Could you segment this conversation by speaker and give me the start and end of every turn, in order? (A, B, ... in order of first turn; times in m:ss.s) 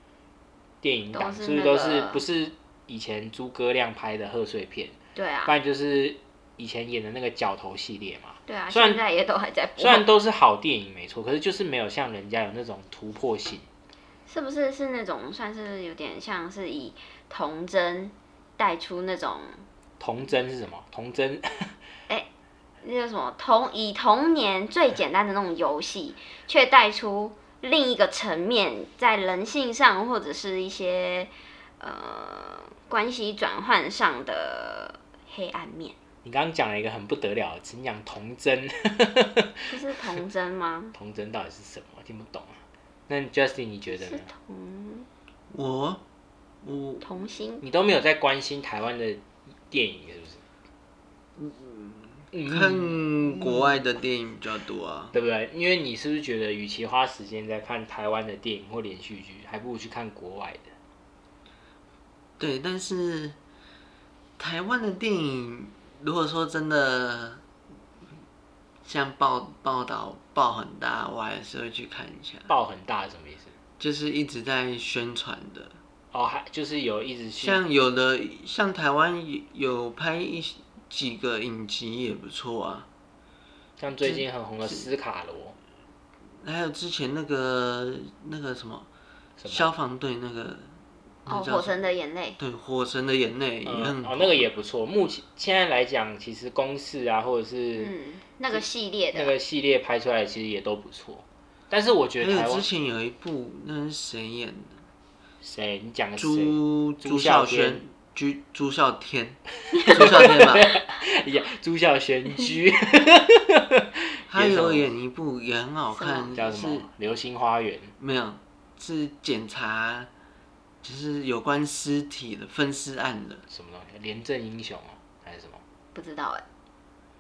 0:00.8-0:09.0 A
0:01.1-0:02.2 B
0:05.2-0:05.6 B
0:08.5-0:10.1 B
0:09.8-0:13.7 A
0:14.3-0:19.6 B
0:20.0-0:21.8 A
0:22.8-0:36.0 B
0:36.2-0:39.8 A
0:39.7-0:41.0 B
0:40.9-0:44.3 A
0:44.0-0:45.1 B
0:45.5-0:46.0 C
0:46.6-0:47.0 C
0:47.0-0:47.6 B
0:47.6-0:50.4 A
0:51.4-0:55.2 C
0:52.3-0:53.0 A
0:55.1-1:00.7 A
1:02.4-1:03.4 C
1:04.4-1:07.4 C
1:08.8-1:12.5 C
1:12.5-1:13.5 A
1:13.8-1:15.8 C
1:16.1-1:17.6 A
1:17.4-1:22.9 C
1:23.8-1:25.6 A
1:24.0-1:24.9 C
1:26.4-1:28.9 C
1:29.4-1:29.7 A
1:29.5-1:34.5 C
1:31.3-1:32.4 B
1:33.6-1:37.9 A
1:37.8-1:39.4 B
1:38.5-1:42.7 A
1:42.2-1:44.8 C
1:45.4-1:47.8 A
1:46.2-1:49.4 C
1:49.7-1:50.0 B
1:49.9-1:54.9 A
1:49.9-1:50.7 C
1:54.3-1:56.9 C
1:55.9-1:56.3 B
1:56.3-1:57.9 A
1:58.0-2:00.1 C
2:00.8-2:03.4 C
2:03.5-2:05.6 A
2:06.0-2:06.4 B